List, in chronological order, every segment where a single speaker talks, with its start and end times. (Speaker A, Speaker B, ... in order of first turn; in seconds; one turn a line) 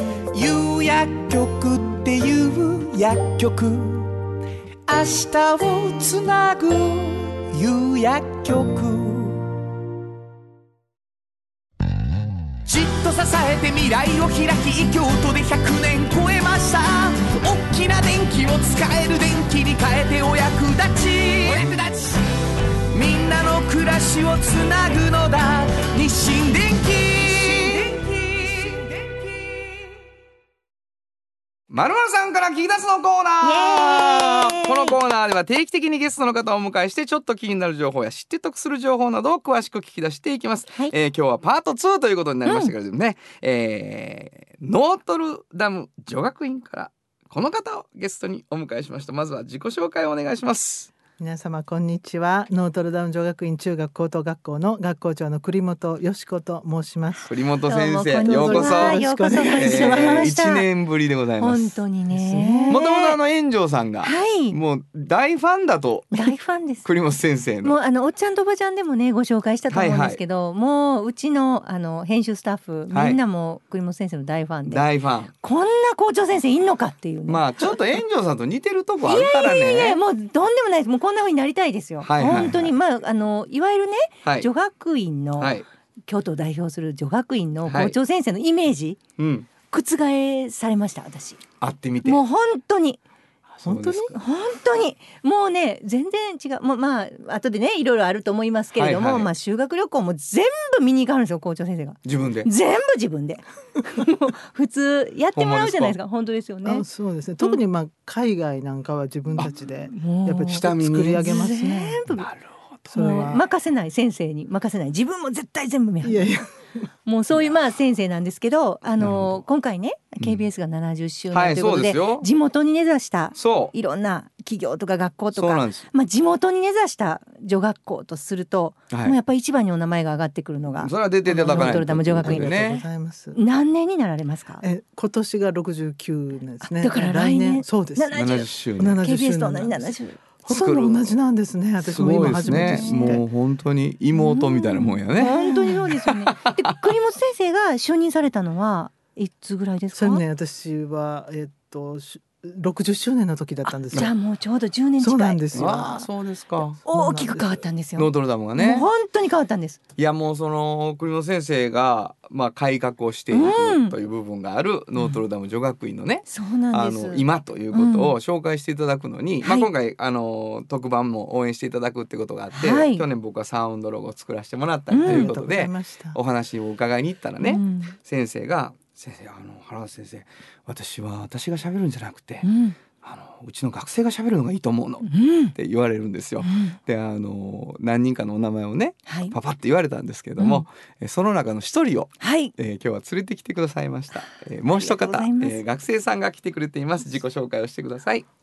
Speaker A: 0.3-4.2
Speaker A: 4.9-9.4
Speaker A: 12.6-22.2
Speaker A: 22.9-29.8
Speaker B: 31.7-50.9
Speaker C: 33.4-35.0
Speaker C: 42.4-42.7
Speaker D: 51.2-57.3
Speaker B: 57.3-61.8
Speaker C: 57.6-60.7
Speaker D: 58.2-60.3
Speaker C: 61.4-63.2
Speaker D: 62.1-62.8
Speaker B: 62.7-66.3
Speaker C: 64.0-64.6
Speaker C: 66.1-66.9
Speaker B: 66.8-67.8
Speaker C: 67.6-74.9
Speaker B: 69.7-70.2
Speaker B: 72.9-73.2
Speaker B: 74.7-75.3
Speaker C: 75.4-77.8
Speaker B: 77.3-80.0
Speaker C: 79.0-89.0
Speaker B: 82.0-82.7
Speaker B: 84.2-84.5
Speaker B: 85.4-85.7
Speaker B: 87.7-88.0
Speaker B: 89.2-89.5
Speaker C: 89.7-91.4
Speaker B: 91.6-92.2
Speaker C: 92.0-93.0
Speaker D: 93.6-94.1
Speaker B: 93.6-94.2
Speaker C: 94.1-106.8
Speaker B: 98.8-99.3
Speaker B: 102.0-102.5
Speaker B: 105.3-106.0
Speaker D: 106.6-112.2
Speaker C: 109.9-112.2
Speaker B: 110.5-111.2
Speaker B: 112.1-112.9
Speaker D: 112.9-113.4
Speaker C: 112.9-116.3
Speaker D: 116.0-116.5
Speaker C: 117.0-132.7
Speaker B: 119.0-119.4
Speaker B: 120.2-120.4
Speaker B: 121.3-122.3
Speaker B: 123.3-123.7
Speaker B: 125.3-125.9
Speaker B: 128.9-129.2
Speaker B: 130.8-132.8
Speaker D: 131.3-133.4
Speaker C: 133.3-134.6
Speaker D: 134.6-143.2
Speaker C: 136.7-140.2
Speaker B: 138.1-139.0
Speaker B: 140.4-141.1
Speaker B: 141.8-146.9
Speaker C: 142.2-143.2
Speaker C: 144.1-150.2
Speaker D: 149.9-154.1
Speaker C: 153.7-155.9
Speaker D: 155.0-156.1
Speaker B: 155.5-156.8
Speaker D: 156.8-157.6
Speaker C: 156.8-159.8
Speaker B: 157.9-158.9
Speaker B: 160.0-182.5
Speaker C: 163.3-163.9
Speaker C: 166.3-168.2
Speaker C: 169.4-169.7
Speaker C: 172.5-173.1
Speaker C: 174.9-175.3
Speaker D: 175.0-176.2
Speaker C: 177.4-177.9
Speaker C: 182.4-182.8
Speaker B: 183.0-198.2
Speaker C: 185.0-185.5
Speaker C: 186.4-186.8
Speaker C: 189.1-189.3
Speaker C: 190.4-190.7
Speaker C: 192.2-192.5
Speaker C: 194.7-195.6